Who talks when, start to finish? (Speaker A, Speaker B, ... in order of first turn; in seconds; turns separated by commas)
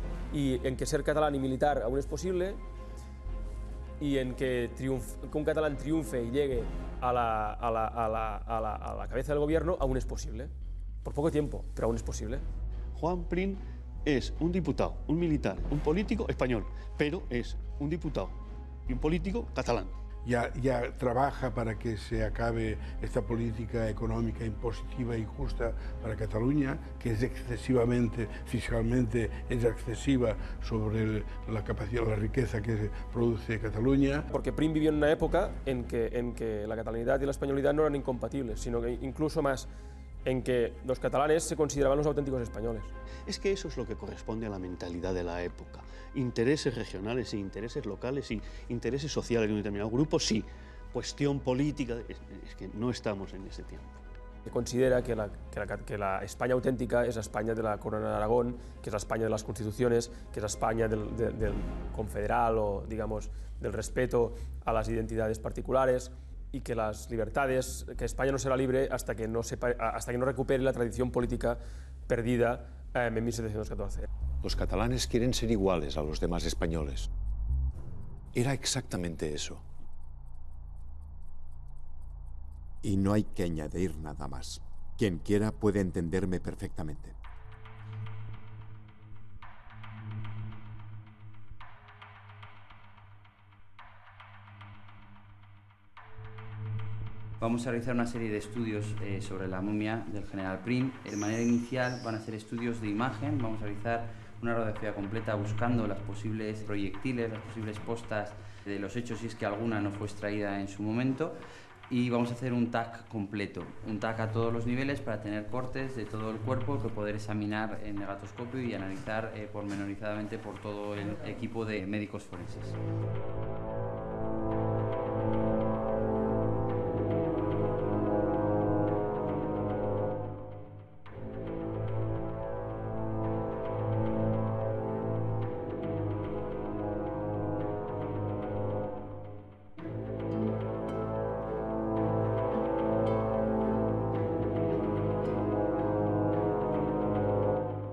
Speaker A: 0.3-2.6, Speaker A: 4.0-10.5, Speaker A: 11.0-12.4, Speaker B: 12.9-18.4, Speaker B: 18.9-19.9, Speaker C: 20.2-34.3, Speaker A: 34.3-39.7, Speaker A: 40.2-42.9, Speaker B: 43.3-53.9, Speaker A: 54.5-74.1, Speaker D: 74.4-77.1, Speaker D: 78.3-79.6, Speaker E: 82.8-87.1, Speaker F: 97.4-111.4, Speaker F: 111.9-122.8